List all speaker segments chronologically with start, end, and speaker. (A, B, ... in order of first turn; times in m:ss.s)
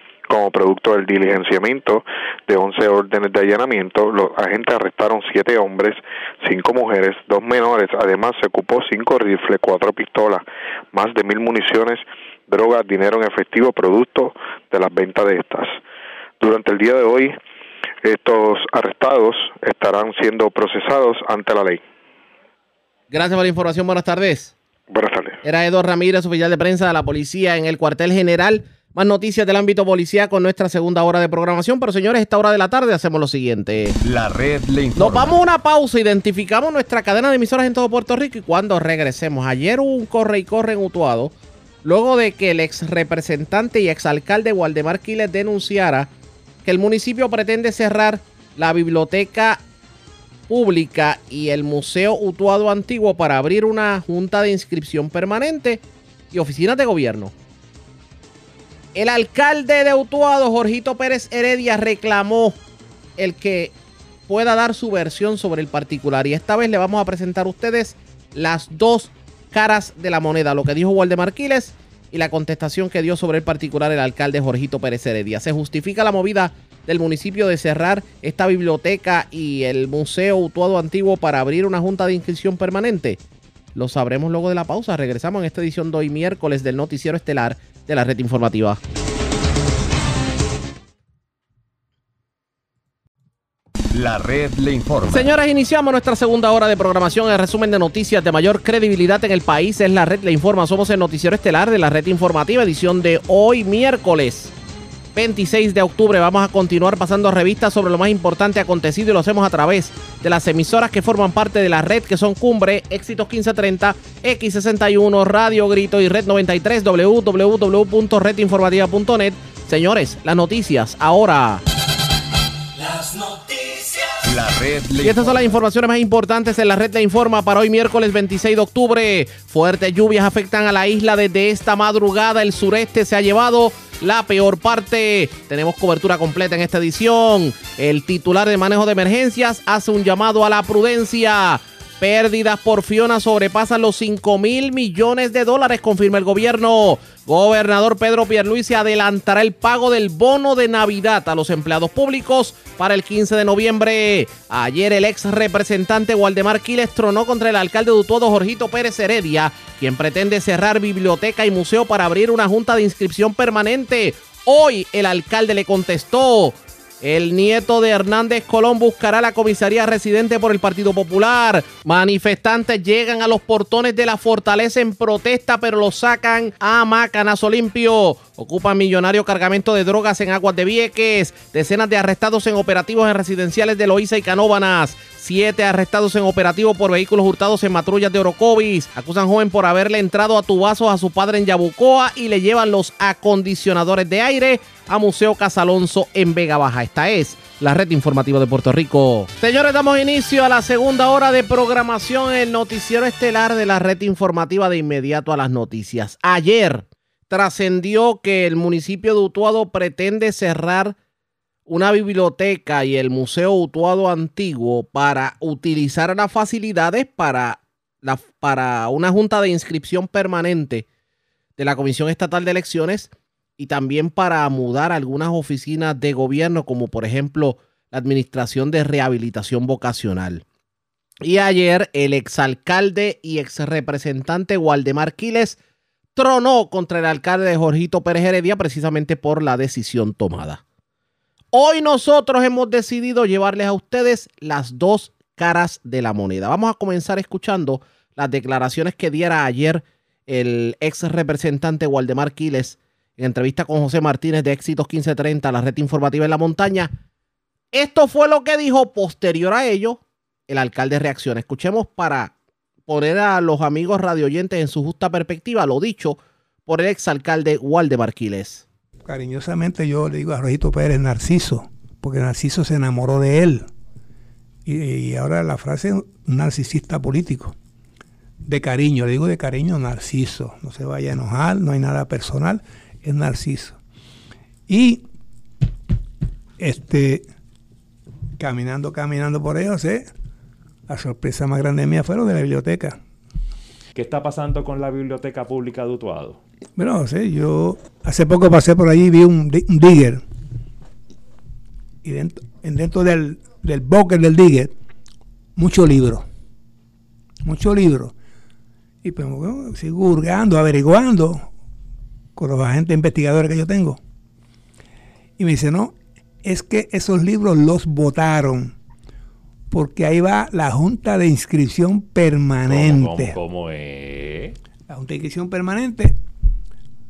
0:00.3-0:15.8 A
0:16.4-0:17.4 A
0:18.0-0:21.8 A
0:23.1-0:24.6 B
0:24.9-0:25.4 A
0:25.4-0:34.0 B
0:34.0-0:35.4 C
0:35.0-0:41.3 B
0:41.8-0:46.1 B
0:46.6-0:49.6 B
0:50.5-0:57.3 B
0:59.0-1:02.6 B
1:03.2-1:03.7 B
1:04.3-1:23.2 B
1:23.8-1:28.8 B
1:33.9-1:35.3 C
1:35.1-1:44.5 B
1:45.2-2:01.6 B
2:04.2-2:05.6 C
2:05.0-3:31.0 B
3:31.7-3:40.9 B
3:41.6-3:50.4 B
3:51.2-3:55.6 B
3:56.2-4:00.6 B
4:01.5-4:16.9 B
4:17.7-4:22.3 B
4:22.9-4:28.7 B
4:29.0-4:33.7 D
4:34.6-4:37.6 D
4:38.4-4:43.8 D
4:44.7-4:45.0 D
4:46.6-4:47.3 D
4:48.4-4:50.1 D
4:50.9-4:53.0 D
4:54.0-4:56.4 E
4:56.8-5:00.2 D
5:02.0-5:04.7 D
5:05.6-5:06.3 D
5:07.4-5:08.1 D
5:09.0-5:11.5 D
5:12.4-5:14.0 D
5:15.4-5:18.8 D
5:19.7-5:23.3 D
5:22.7-5:24.6 E
5:24.9-5:26.2 D